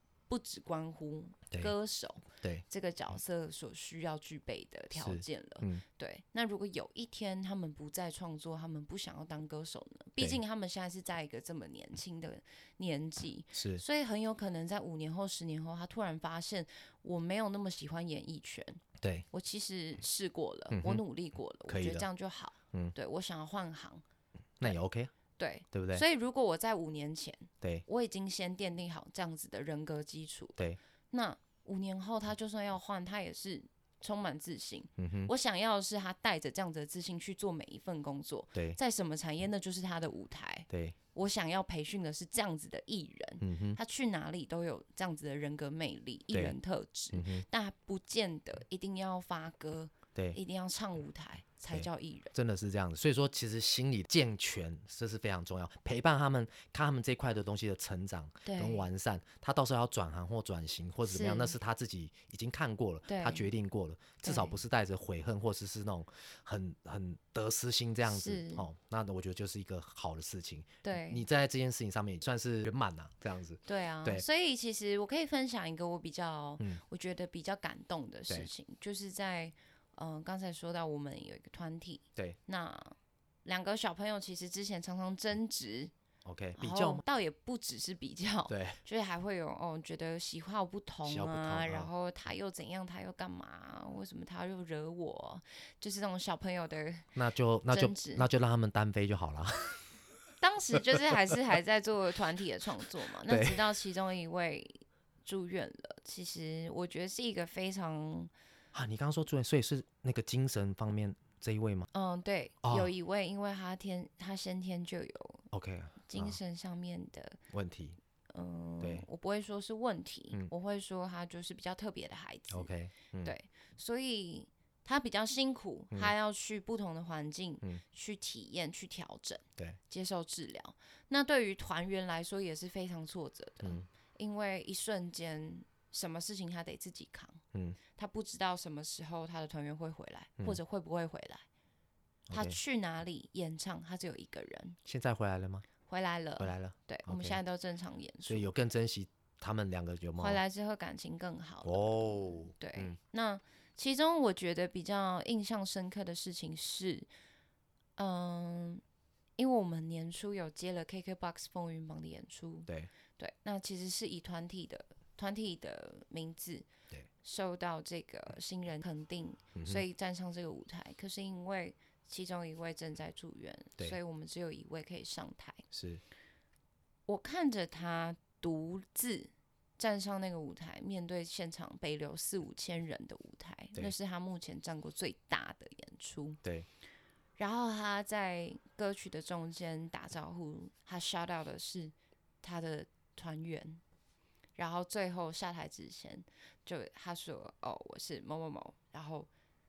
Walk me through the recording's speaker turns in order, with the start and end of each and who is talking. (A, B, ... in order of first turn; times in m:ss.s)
0:00.3-0:24.0 A
0:02.3-0:02.6 B
0:05.0-0:05.8 B
0:13.6-0:13.8 B
0:19.0-0:19.3 B
0:20.7-0:21.0 B
0:21.7-0:22.1 B
0:24.6-0:25.1 B
0:25.4-0:30.6 A
0:25.7-0:26.0 B
0:31.1-0:52.3 A
0:35.0-0:35.3 B
0:40.7-0:41.0 B
0:43.4-0:43.8 B
0:46.3-0:46.6 B
0:47.1-0:47.4 B
0:51.7-1:14.2 B
0:58.4-0:58.9 A
1:01.1-1:01.6 A
1:03.1-1:03.5 A
1:04.2-1:04.6 A
1:08.1-1:08.7 A
1:10.8-1:11.2 A
1:13.7-1:25.9 A
1:26.2-1:27.0 B
1:26.6-1:37.1 A
1:28.5-1:28.8 B
1:31.0-1:31.9 B
1:37.2-1:39.9 B
1:37.7-1:38.3 A
1:40.4-1:48.3 A
1:40.8-1:41.4 B
1:43.3-1:43.7 B
1:48.7-1:51.9 B
1:51.9-1:55.5 A
1:52.6-1:52.9 B
1:55.5-1:56.4 B
1:56.0-1:57.4 A
1:57.5-1:58.0 B
1:58.3-2:02.7 A
1:58.8-1:59.1 B
2:02.5-2:03.3 B
2:03.2-2:17.4 A
2:18.0-2:21.4 A
2:22.3-2:22.6 B
2:22.3-2:24.8 A
2:24.8-2:25.7 B
2:25.9-2:28.5 A
2:26.4-2:27.4 B
2:28.3-2:30.4 B
2:30.2-2:37.1 A
2:31.6-2:33.0 B
2:38.0-2:38.8 A
2:39.4-2:46.7 A
2:47.2-2:55.6 A
2:49.6-2:49.8 B
2:55.7-2:56.0 B
2:57.1-3:06.4 A
3:07.4-3:13.8 A
3:14.6-3:19.3 A